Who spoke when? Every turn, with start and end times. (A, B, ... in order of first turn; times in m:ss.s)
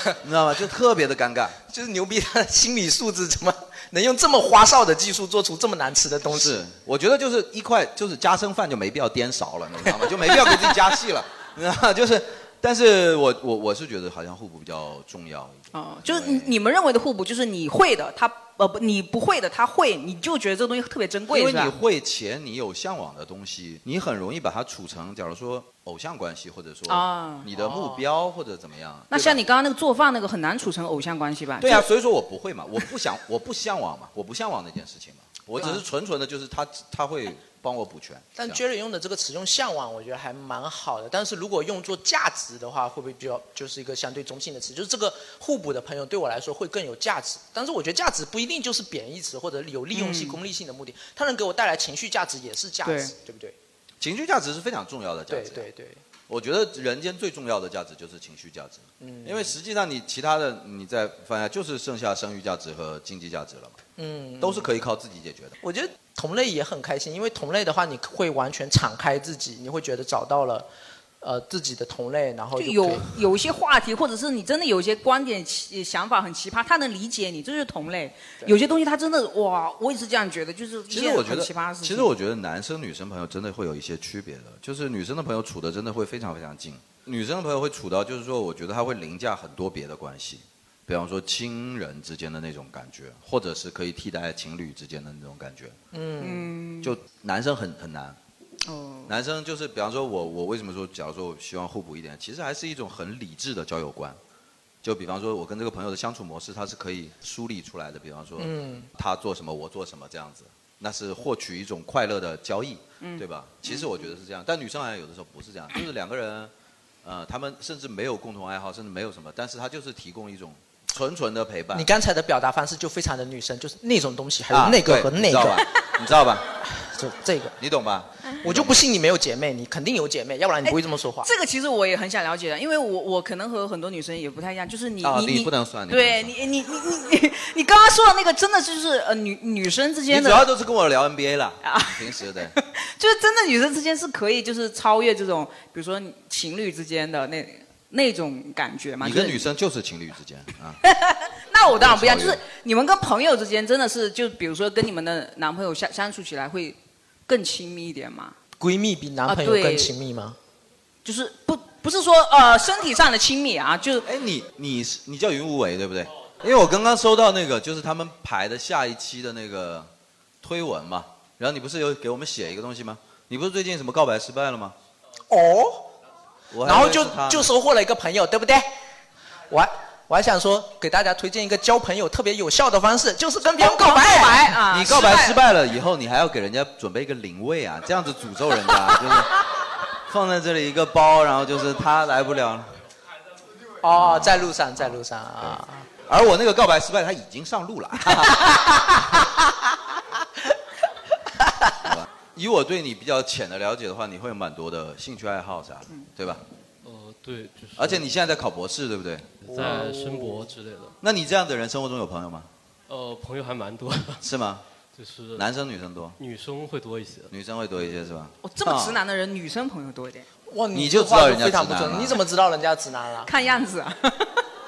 0:00.2-0:01.6 A
0:01.7-0:06.6 B
0:06.3-0:16.6 A
0:15.7-0:21.8 C
0:21.3-0:29.4 A
0:26.9-0:28.0 C
0:29.1-0:31.8 C
0:31.6-0:38.6 A
0:38.4-0:53.6 B
0:49.9-0:50.4 C
0:52.8-0:53.1 C
0:54.0-0:55.6 A
0:55.3-0:56.0 B
0:56.3-1:03.8 A
0:59.0-0:59.5 B
1:04.0-1:04.7 B
1:04.4-1:05.5 A
1:05.6-1:10.7 B
1:11.2-1:13.1 B
1:12.6-1:22.1 C
1:20.9-1:35.8 A
1:35.9-1:36.5 B
1:36.2-1:36.9 C
1:36.8-1:38.2 A
1:38.6-1:39.1 C
1:39.1-1:44.2 A
1:44.8-1:56.5 A
1:48.4-1:48.9 B
1:53.0-1:53.9 C
1:57.0-2:01.9 A
2:01.7-2:05.6 B
2:04.5-2:06.5 A
2:06.7-2:07.6 B
2:07.6-2:08.8 A
2:08.4-2:11.3 B
2:10.6-2:20.5 C
2:15.0-2:16.3 A
2:20.1-2:22.5 A
2:21.6-2:29.4 C
2:29.0-2:30.8 A
2:30.8-2:38.3 C
2:31.6-2:32.4 A
2:38.6-2:40.4 B
2:39.3-2:39.9 C
2:41.0-2:44.0 C
2:44.0-2:49.9 A
2:50.4-2:54.7 A
2:55.3-2:55.9 B
2:56.5-2:57.5 A
2:56.6-2:58.7 B
2:59.5-3:04.6 B
3:03.6-3:05.4 C
3:04.7-3:09.4 A
3:10.1-3:12.7 A
3:13.8-3:15.9 B
3:13.9-3:15.0 A
3:16.1-3:18.6 A
3:21.8-3:26.4 A
3:26.8-3:28.1 D
3:27.8-3:29.5 A
3:29.5-3:30.9 D
3:29.8-3:30.2 B
3:31.0-3:32.5 A
3:32.9-3:34.2 D
3:34.2-3:34.6 A
3:34.9-3:35.5 D
3:35.4-3:36.2 A
3:36.2-3:37.3 D
3:37.3-3:39.0 A
3:38.4-3:40.3 C
3:40.5-3:43.3 B
3:40.7-3:42.2 A
3:43.2-3:44.4 C